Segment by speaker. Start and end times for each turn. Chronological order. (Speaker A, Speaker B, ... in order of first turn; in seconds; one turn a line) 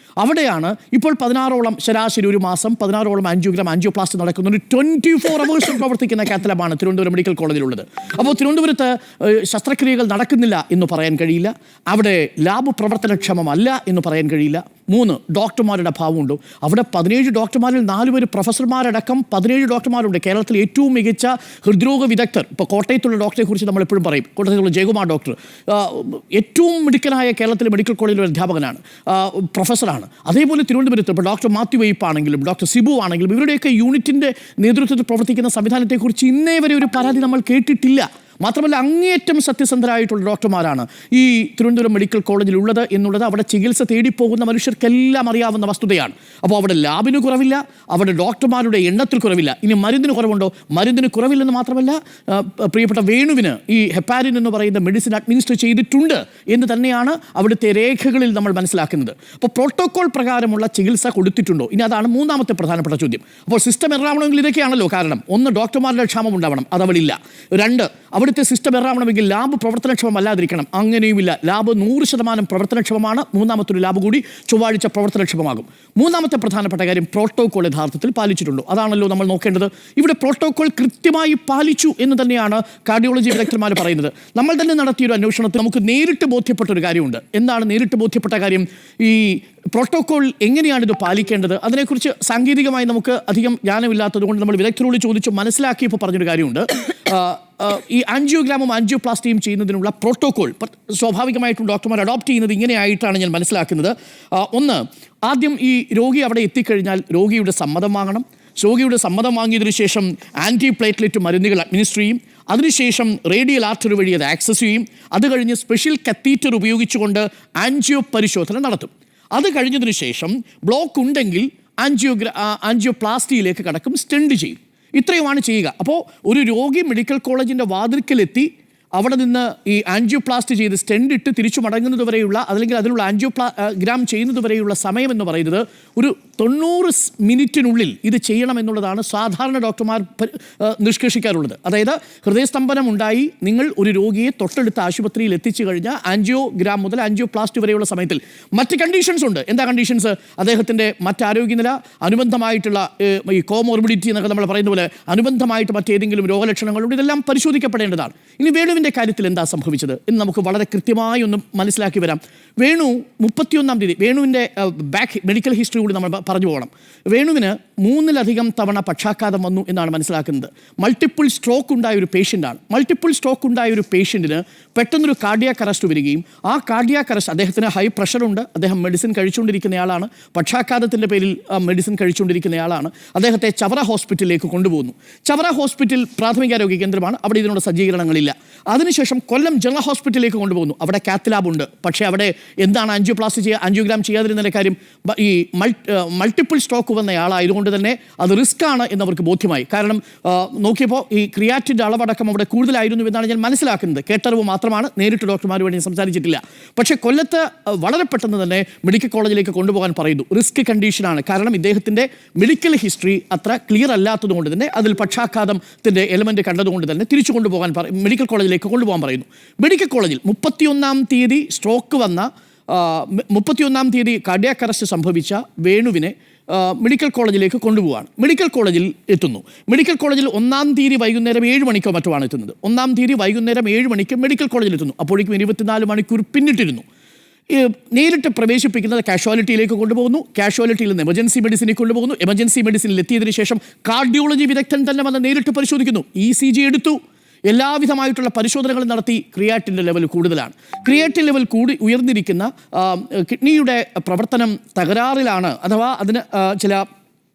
Speaker A: 0.2-236.8
Speaker A: 237.5-256.9